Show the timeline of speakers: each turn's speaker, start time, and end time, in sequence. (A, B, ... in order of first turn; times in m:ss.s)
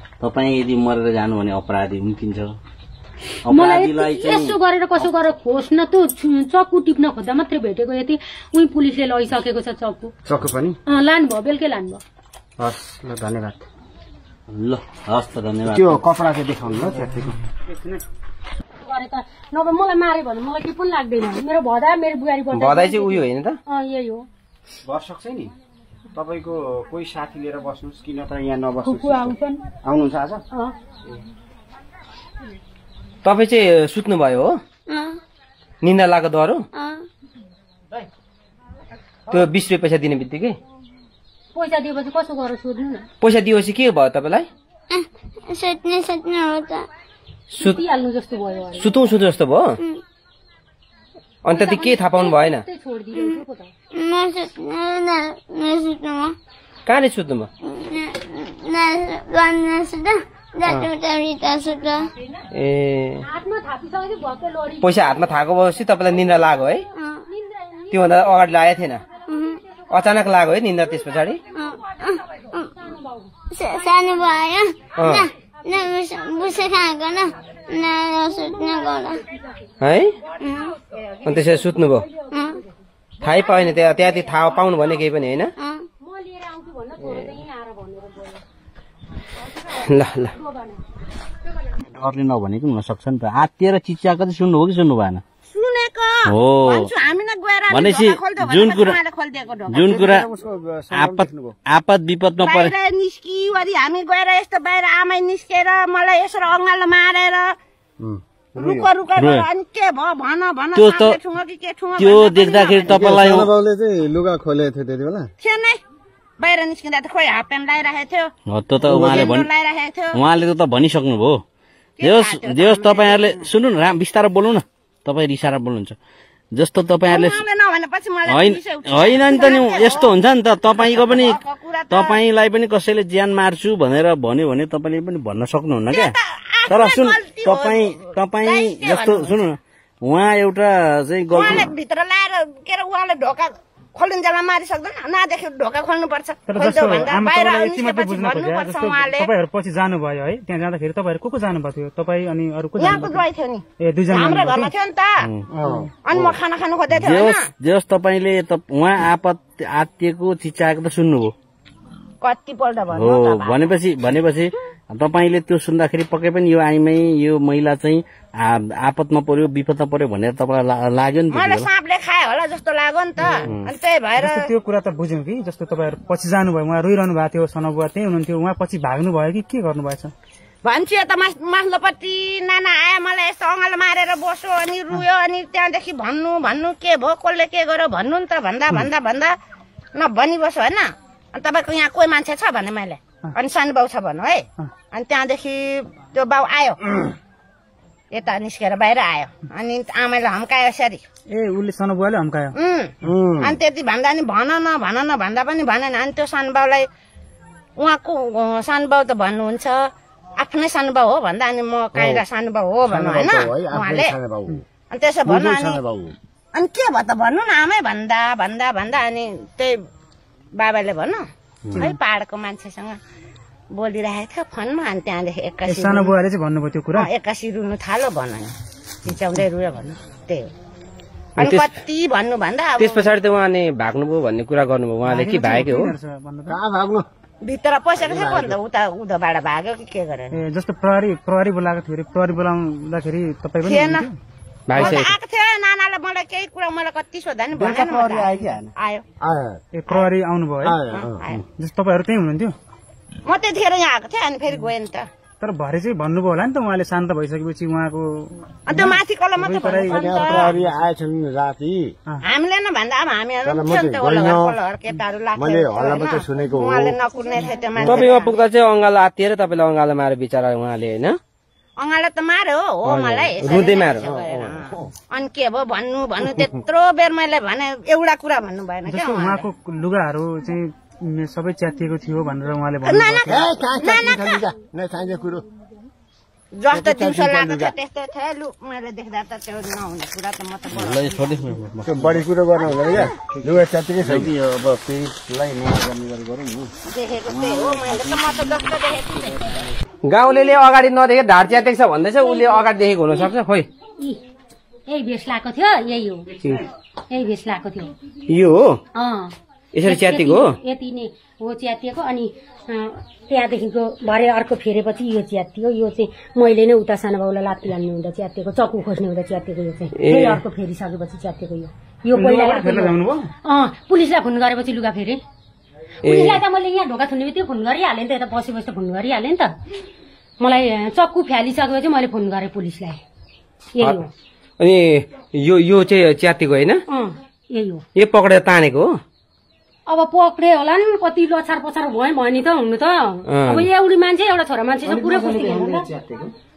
0:00.2-0:02.5 A
0:03.4-0:04.6 A
0:03.5-0:10.1 B
0:10.2-0:10.8 C
0:10.9-0:12.0 B
0:12.6-0:13.6 C
0:14.5-0:16.0 A
0:15.6-0:17.4 C
0:17.6-0:18.0 D
0:18.8-0:24.3 B
0:22.5-0:23.6 E
0:24.8-0:25.5 C
0:26.1-0:30.4 C
0:28.8-0:29.6 B
0:33.2-0:34.6 E
0:34.9-0:35.2 F
0:35.8-0:36.6 E
0:36.7-0:37.0 F
0:39.3-0:40.6 E
0:41.5-0:43.1 B
0:43.2-0:44.5 E
0:44.9-0:46.8 F
0:47.5-0:47.8 E
0:47.6-0:48.9 B
0:48.8-0:49.8 E
0:51.4-0:52.6 E
0:51.5-0:53.7 B
0:53.9-0:56.3 F
0:56.9-0:57.5 E
0:57.6-1:02.1 F
1:00.6-1:00.9 E
1:02.5-1:03.2 E
1:03.2-1:05.0 B
1:04.8-1:06.8 E
1:06.9-1:07.2 F
1:07.3-1:08.1 B
1:07.9-1:09.0 E
1:09.3-1:09.6 F
1:09.9-1:11.4 E
1:11.5-1:12.7 F
1:12.8-1:13.3 B
1:13.5-1:19.2 F
1:15.0-1:15.3 E
1:19.8-1:20.1 E
1:20.4-1:20.8 F
1:21.2-1:22.0 E
1:22.3-1:22.6 F
1:23.2-1:25.5 E
1:25.6-1:25.8 F
1:26.0-1:28.4 B
1:29.7-1:30.3 E
1:30.3-1:30.8 B
1:31.9-1:35.2 A
1:35.5-1:40.2 G
1:36.2-1:36.9 A
1:37.7-1:39.0 A
1:39.7-1:40.3 A
1:39.8-1:41.5 C
1:40.9-1:42.7 A
1:42.4-1:47.6 G
1:48.0-1:48.9 H
1:48.6-1:53.0 G
1:49.2-1:49.5 A
1:50.7-1:51.2 A
1:52.0-1:53.5 A
1:52.9-1:55.3 H
1:55.4-1:55.8 G
1:56.4-1:58.3 G
1:58.5-1:59.5 A
1:58.8-1:59.3 H
1:59.0-2:00.2 G
2:00.1-2:01.4 A
2:02.0-2:03.5 G
2:02.0-2:06.0 A
2:06.5-2:07.4 A
2:07.1-2:10.1 G
2:08.3-2:16.2 A
2:10.7-2:12.2 G
2:15.9-2:19.4 G
2:16.7-2:21.7 A
2:21.3-2:29.3 G
2:26.5-2:33.2 D
2:32.8-2:35.3 G
2:33.8-2:34.7 D
2:35.2-2:35.4 A
2:35.5-2:35.9 H
2:36.0-2:37.5 G
2:36.1-2:36.4 A
2:36.9-2:41.3 A
2:42.2-2:43.7 G
2:42.9-2:51.7 A
2:51.3-2:54.5 G
2:53.4-2:53.7 A
2:54.2-3:00.1 D
3:00.6-3:09.4 G
3:09.9-3:16.8 G
3:18.1-3:21.0 G
3:21.3-3:22.5 D
3:22.5-3:26.8 G
3:23.0-3:23.6 H
3:27.8-3:29.8 G
3:30.4-3:34.2 G
3:32.9-3:34.6 C
3:34.9-3:35.8 G
3:35.3-3:36.1 C
3:36.5-3:39.8 G
3:40.6-3:43.0 G
3:43.7-3:46.1 G
3:45.6-3:47.1 D
3:46.9-3:48.5 G
3:49.0-3:50.5 G
3:51.4-3:51.7 E
3:51.4-3:53.1 G
3:52.8-3:56.0 E
3:55.0-3:56.6 D
3:56.5-3:57.0 H
3:57.4-4:00.4 G
3:58.0-3:58.5 H
4:00.3-4:04.2 D
4:03.6-4:04.1 G
4:04.7-4:05.1 E
4:04.7-4:09.0 G
4:07.5-4:08.6 H
4:07.8-4:08.6 C
4:09.2-4:09.6 H
4:09.7-4:10.8 D
4:10.6-4:11.2 H
4:11.2-4:11.4 G
4:11.6-4:12.6 D
4:13.2-4:15.1 G
4:15.4-4:20.6 D
4:18.6-4:20.6 G
4:19.9-4:21.9 H
4:22.2-4:28.4 G
4:23.4-4:24.6 H
4:25.4-4:28.0 H
4:27.8-4:31.2 E
4:31.8-4:39.4 G
4:32.8-4:34.0 E
4:34.0-4:34.9 H
4:38.8-4:43.5 D
4:42.8-4:44.5 G
4:43.3-4:45.4 H
4:46.5-4:51.4 G
4:46.7-4:47.7 H
4:50.7-4:52.2 A
4:51.8-4:56.7 H
4:52.9-4:53.4 A
4:54.0-4:54.3 A
4:56.8-4:59.4 G
5:00.0-5:03.7 E
5:04.9-5:06.3 B
5:06.3-5:06.7 D
5:07.1-5:07.9 B
5:08.3-5:08.8 E
5:08.9-5:25.2 B
5:09.7-5:10.6 E
5:19.9-5:20.4 E
5:22.1-5:23.3 D
5:26.0-5:26.4 E
5:26.0-5:29.5 B
5:30.4-5:33.0 B
5:33.8-5:34.1 B
5:34.6-5:36.8 E
5:36.9-5:37.8 B
5:38.0-5:39.0 E
5:39.9-5:45.9 B
5:43.3-5:43.7 E
5:44.8-5:46.3 C